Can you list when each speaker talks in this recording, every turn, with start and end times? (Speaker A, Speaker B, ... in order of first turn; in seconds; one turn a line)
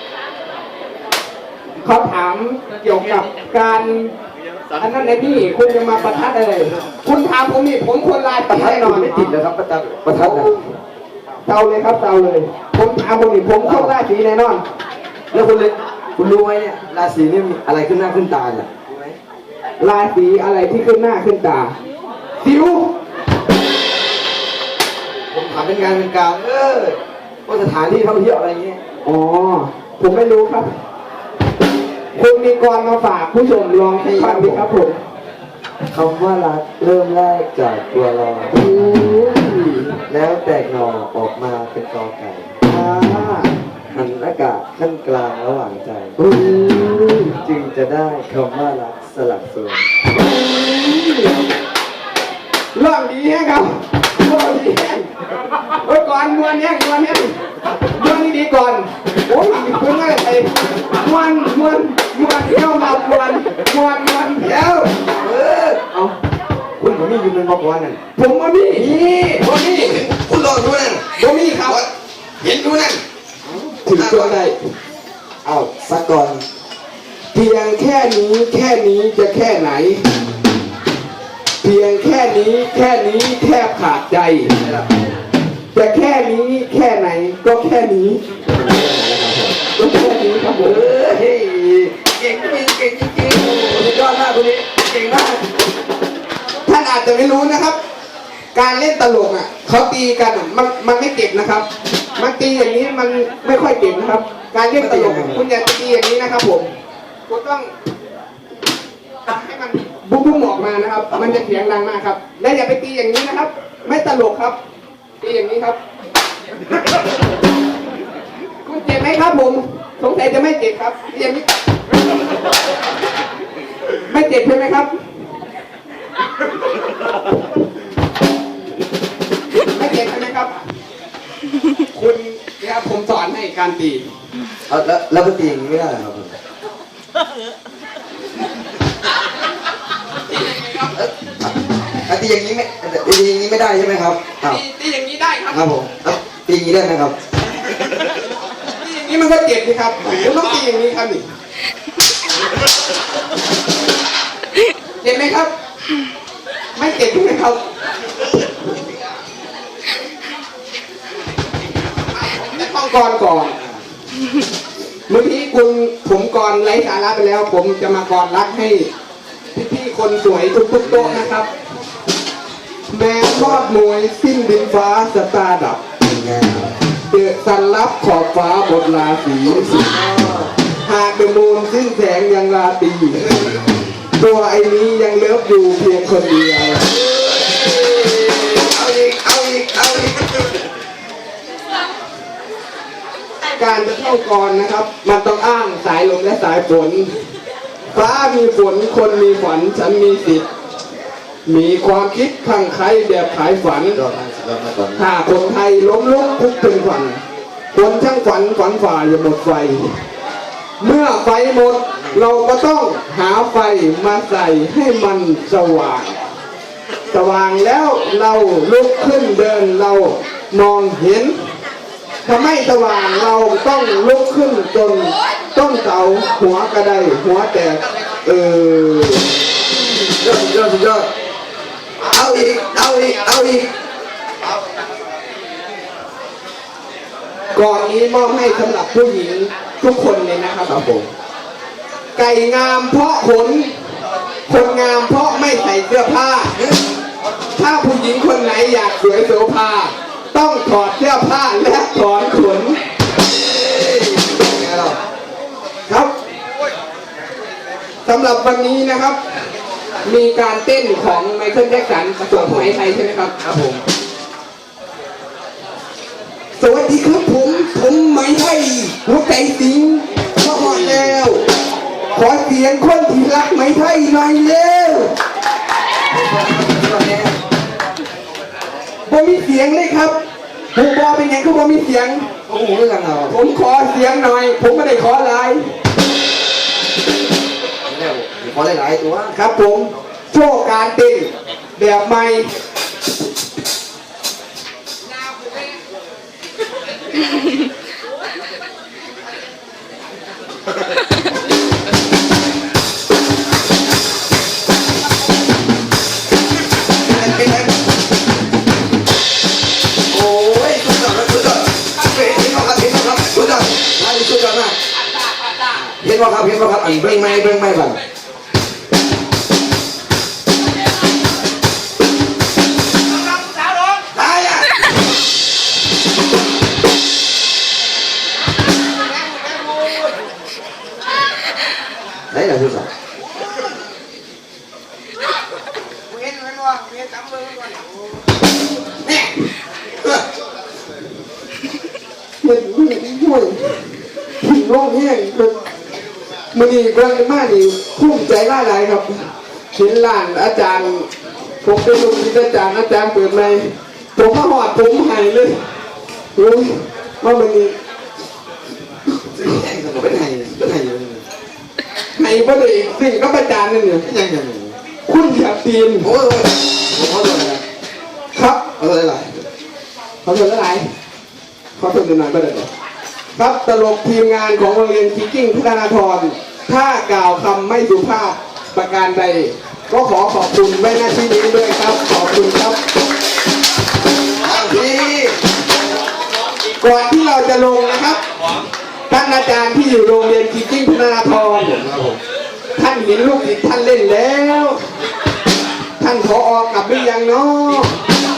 Speaker A: 1.8-4.1
Speaker A: 4.8-9.3
Speaker B: 8.5-10.5
Speaker A: 10.1-10.7
Speaker A: 11.4-14.6
Speaker B: 13.6-14.0
Speaker B: 15.3-19.2
Speaker A: 19.8-21.7
Speaker A: 22.4-22.9
Speaker B: 25.3-28.8
Speaker A: 29.0-30.7
Speaker A: 32.1-35.0
Speaker B: 34.0-34.7
Speaker B: 35.9-38.6
Speaker A: 38.5-40.0
Speaker B: 40.1-42.5
Speaker A: 42.6-43.5
Speaker B: 43.9-46.1
Speaker A: 46.2-47.4
Speaker B: 47.4-49.9
Speaker A: 50.1-51.4
Speaker A: 52.7-55.1
Speaker A: 55.7-57.4
Speaker A: 57.9-64.5
Speaker B: 64.4-65.8
Speaker B: 66.8-68.0
Speaker A: 68.1-70.0
Speaker B: 68.7-71.9
Speaker A: 71.2-71.8
Speaker B: 72.4-73.0
Speaker A: 73.7-74.7
Speaker B: 73.9-74.4
Speaker B: 75.4-76.4
Speaker A: 77.3-80.0
Speaker A: 81.6-84.5
Speaker B: 84.5-84.9
Speaker A: 85.7-88.2
Speaker B: 88.4-89.6
Speaker A: 89.7-90.9
Speaker B: 90.6-95.4
Speaker A: 96.6-97.8
Speaker A: 98.5-106.7
Speaker B: 104.7-105.5
Speaker A: 107.3-107.7
Speaker A: 109.3-114.6
Speaker B: 111.1-111.4
Speaker A: 115.2-115.8
Speaker A: 118.6-121.5
Speaker A: 124.1-124.9
Speaker A: 129.6-130.6
Speaker A: 131.9-134.1
Speaker B: 134.7-136.3
Speaker A: 140.3-140.9
Speaker B: 140.9-141.5
Speaker B: 142.1-144.6
Speaker A: 144.4-145.7
Speaker B: 145.5-147.1
Speaker A: 148.8-151.2
Speaker A: 155.0-155.5
Speaker A: 156.8-157.6
Speaker A: 162.2-163.6
Speaker A: 165.1-168.9
Speaker A: 169.5-171.5
Speaker B: 170.8-171.3
Speaker A: 172.9-175.8
Speaker B: 173.2-173.7
Speaker B: 176.0-176.8
Speaker A: 177.1-179.9
Speaker B: 179.4-180.6
Speaker A: 180.8-183.3
Speaker A: 184.1-186.9
Speaker B: 186.8-190.5
Speaker A: 193.6-197.1
Speaker A: 197.9-200.4
Speaker A: 201.4-204.0
Speaker B: 203.9-205.1
Speaker A: 204.9-207.2
Speaker A: 207.7-209.9
Speaker A: 210.8-216.2
Speaker A: 217.1-221.4
Speaker A: 222.2-229.3
Speaker B: 229.8-231.1
Speaker B: 232.0-233.7
Speaker A: 237.5-240.8
Speaker B: 240.6-241.1
Speaker A: 242.2-243.9
Speaker A: 244.5-246.6
Speaker A: 247.6-252.8
Speaker B: 253.2-255.0
Speaker A: 258.1-259.2
Speaker A: 260.0-263.3
Speaker B: 262.3-262.8
Speaker B: 263.4-263.8
Speaker A: 266.6-271.4
Speaker B: 270.4-271.2
Speaker A: 272.1-275.1
Speaker B: 276.1-277.4
Speaker A: 279.1-280.2
Speaker A: 280.7-282.3
Speaker B: 282.5-283.4
Speaker A: 283.3-285.7
Speaker B: 287.8-289.4
Speaker A: 289.3-292.5
Speaker B: 307.0-307.8
Speaker B: 310.1-314.8
Speaker B: 315.7-318.0
Speaker B: 324.0-324.8
Speaker B: 332.3-332.9
Speaker B: 336.4-337.0
Speaker A: 339.0-339.4
Speaker A: 342.4-345.6
Speaker A: 346.5-349.2
Speaker A: 349.8-351.1
Speaker A: 351.6-355.6
Speaker A: 356.3-357.7
Speaker B: 359.3-361.2
Speaker A: 362.1-364.1
Speaker B: 364.0-364.8
Speaker A: 365.1-366.1
Speaker B: 366.0-367.6
Speaker A: 368.3-368.7
Speaker B: 368.8-369.4
Speaker A: 370.2-370.9
Speaker A: 371.8-372.7
Speaker A: 373.3-382.8
Speaker B: 384.4-385.4
Speaker A: 386.8-388.2
Speaker A: 389.1-391.9
Speaker B: 391.8-392.2
Speaker A: 392.7-394.8
Speaker A: 396.0-397.9